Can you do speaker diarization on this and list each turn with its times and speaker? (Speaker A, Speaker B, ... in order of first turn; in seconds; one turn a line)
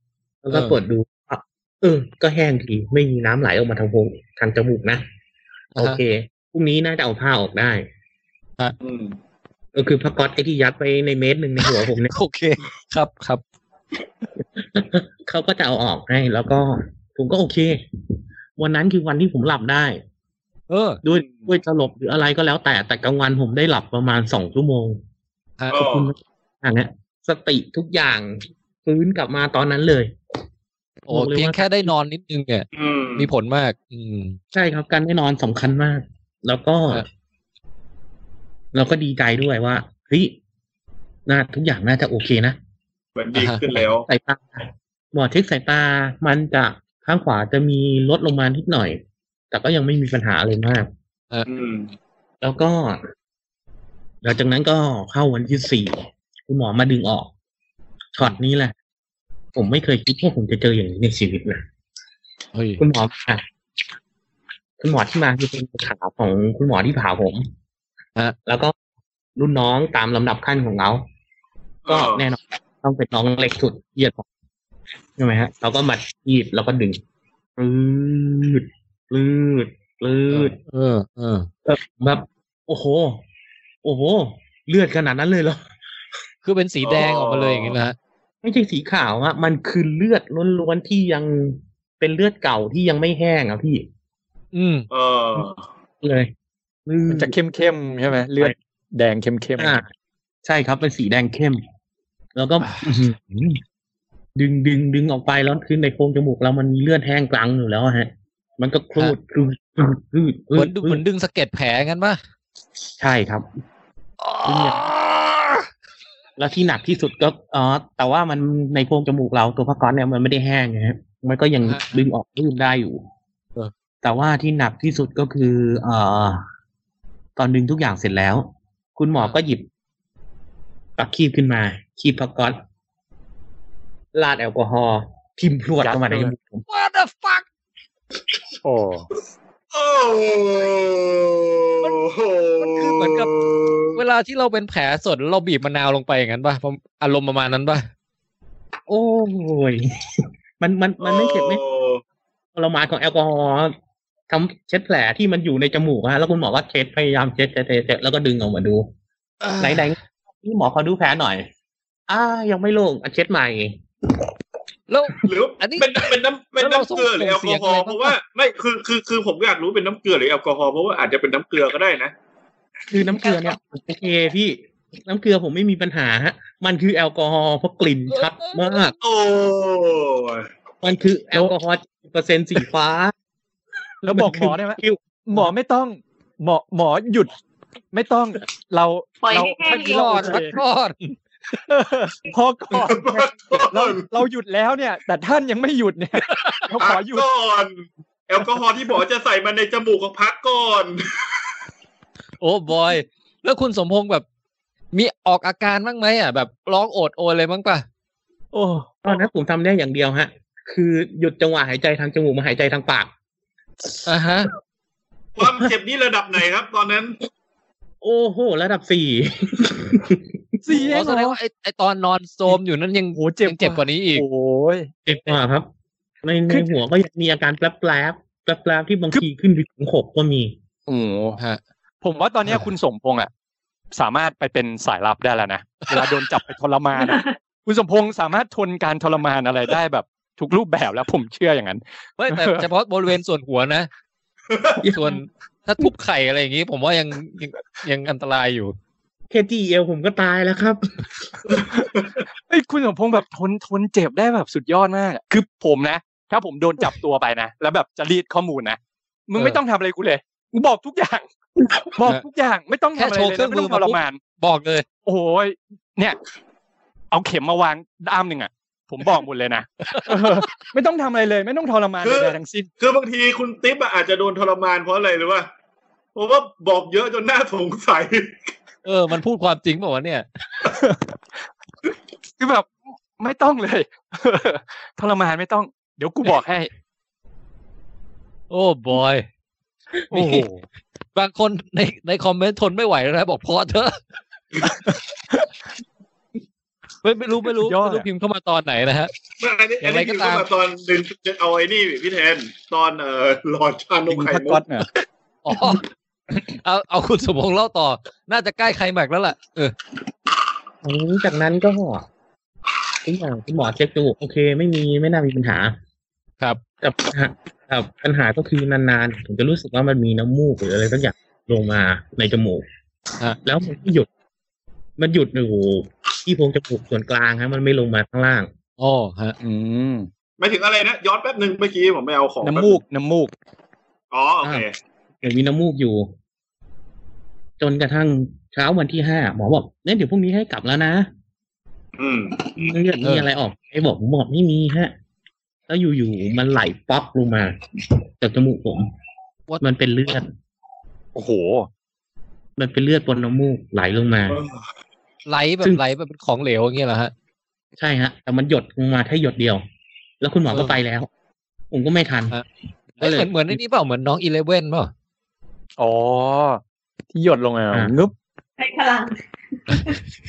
Speaker A: 0.4-5.0
Speaker B: 0.5-0.8
Speaker B: 5.8-6.0
Speaker A: 5.8-7.9
Speaker C: 8.8-9.2
Speaker A: 9.7-12.1
Speaker B: 12.1-13.4
Speaker A: 14.4-17.8
Speaker A: 18.6-20.0
Speaker B: 20.7-21.0
Speaker A: 21.0-25.0
Speaker A: 25.7-30.2
Speaker C: 25.7-26.1
Speaker A: 31.1-31.9
Speaker B: 31.1-34.4
Speaker C: 32.7-33.3
Speaker A: 34.5-37.0
Speaker A: 38.7-40.4
Speaker A: 41.3-42.6
Speaker C: 43.2-44.1
Speaker B: 43.4-43.6
Speaker A: 44.1-50.9
Speaker C: 51.5-51.9
Speaker A: 52.4-53.0
Speaker A: 54.2-57.3
Speaker A: 58.1-58.7
Speaker A: 59.5-61.6
Speaker B: 62.5-62.8
Speaker A: 62.8-63.4
Speaker A: 64.8-67.5
Speaker A: 68.5-68.7
Speaker A: 69.4-71.0
Speaker C: 71.8-72.2
Speaker A: 71.9-74.2
Speaker A: 75.2-77.0
Speaker A: 77.6-80.6
Speaker B: 80.3-81.5
Speaker A: 81.7-83.2
Speaker A: 83.8-85.6
Speaker B: 86.4-88.0
Speaker C: 86.8-87.8
Speaker A: 88.4-93.9
Speaker B: 94.5-94.9
Speaker C: 94.9-95.6
Speaker A: 96.0-96.3
Speaker A: 96.9-97.4
Speaker D: 97.1-99.8
Speaker A: 99.6-99.8
Speaker A: 100.4-101.6
Speaker A: 102.3-103.6
Speaker A: 104.4-111.0
Speaker B: 110.5-112.2
Speaker A: 113.0-113.5
Speaker B: 114.2-115.7
Speaker A: 114.5-114.8
Speaker A: 116.4-123.0
Speaker B: 121.7-122.0
Speaker A: 124.0-126.4
Speaker A: 127.4-129.7
Speaker A: 131.0-132.6
Speaker A: 134.1-136.6
Speaker D: 135.8-136.3
Speaker B: 136.7-137.4
Speaker D: 138.6-139.1
Speaker C: 139.7-144.0
Speaker B: 142.6-143.3
Speaker B: 143.9-147.9
Speaker A: 148.9-151.6
Speaker C: 151.0-152.0
Speaker A: 152.5-153.8
Speaker A: 154.3-158.9
Speaker B: 159.4-159.9
Speaker A: 159.6-161.5
Speaker A: 162.1-163.8
Speaker B: 164.9-165.9
Speaker C: 165.2-172.1
Speaker B: 166.6-168.1
Speaker A: 172.9-178.9
Speaker B: 178.1-178.7
Speaker C: 179.0-180.5
Speaker A: 180.8-183.1
Speaker D: 184.0-187.3
Speaker A: 184.1-185.4
Speaker D: 187.9-190.6
Speaker E: 189.2-190.3
Speaker B: 189.8-191.2
Speaker D: 191.5-197.3
Speaker C: 192.8-194.1
Speaker B: 196.3-196.6
Speaker C: 196.8-201.0
Speaker B: 202.4-204.2
Speaker B: 204.9-207.8
Speaker D: 208.5-208.8
Speaker A: 209.0-213.1
Speaker B: 214.1-214.5
Speaker C: 215.4-217.2
Speaker A: 215.4-215.7
Speaker A: 218.0-220.2
Speaker D: 220.7-221.4
Speaker B: 220.8-224.2
Speaker D: 223.2-224.9
Speaker A: 225.1-225.7
Speaker A: 226.2-230.6
Speaker D: 230.9-231.4
Speaker D: 232.0-233.3
Speaker D: 233.9-242.7
Speaker B: 235.9-236.2
Speaker E: 237.0-237.3
Speaker B: 242.2-243.9
Speaker C: 244.5-244.8
Speaker A: 244.8-245.2
Speaker B: 244.9-248.8
Speaker A: 249.3-251.1
Speaker D: 252.5-264.2
Speaker B: 263.0-264.9
Speaker D: 265.0-266.2
Speaker D: 267.1-272.7
Speaker B: 269.9-270.5
Speaker C: 272.0-275.5
Speaker C: 276.1-278.4
Speaker B: 278.9-280.2
Speaker D: 280.6-281.1
Speaker D: 282.4-286.7
Speaker B: 288.5-289.3
Speaker D: 290.1-290.6
Speaker B: 290.1-290.4
Speaker B: 291.1-294.0
Speaker D: 294.6-295.5
Speaker B: 297.0-299.1
Speaker D: 297.6-298.1
Speaker C: 299.4-304.6
Speaker B: 299.8-300.4
Speaker D: 304.1-304.9
Speaker B: 305.4-305.8
Speaker B: 306.5-309.7
Speaker A: 310.8-312.1
Speaker A: 313.0-315.8
Speaker A: 316.8-322.6
Speaker A: 323.4-324.1
Speaker A: 325.0-328.5
Speaker B: 328.8-329.4
Speaker D: 329.4-330.1
Speaker C: 330.4-332.8
Speaker D: 332.4-333.3
Speaker C: 334.1-334.7
Speaker A: 335.2-336.1
Speaker A: 337.6-341.1
Speaker C: 342.0-342.4
Speaker A: 342.5-344.9
Speaker B: 343.0-343.3
Speaker A: 345.7-347.6
Speaker A: 348.2-348.9
Speaker A: 349.6-350.3
Speaker D: 351.1-351.7
Speaker A: 352.6-354.4
Speaker B: 355.3-357.1
Speaker A: 357.8-359.6
Speaker A: 360.2-361.1
Speaker B: 360.5-360.8
Speaker A: 361.7-362.4
Speaker A: 363.0-363.6
Speaker B: 363.0-364.9
Speaker D: 365.8-366.6
Speaker D: 367.1-368.1
Speaker E: 368.6-369.9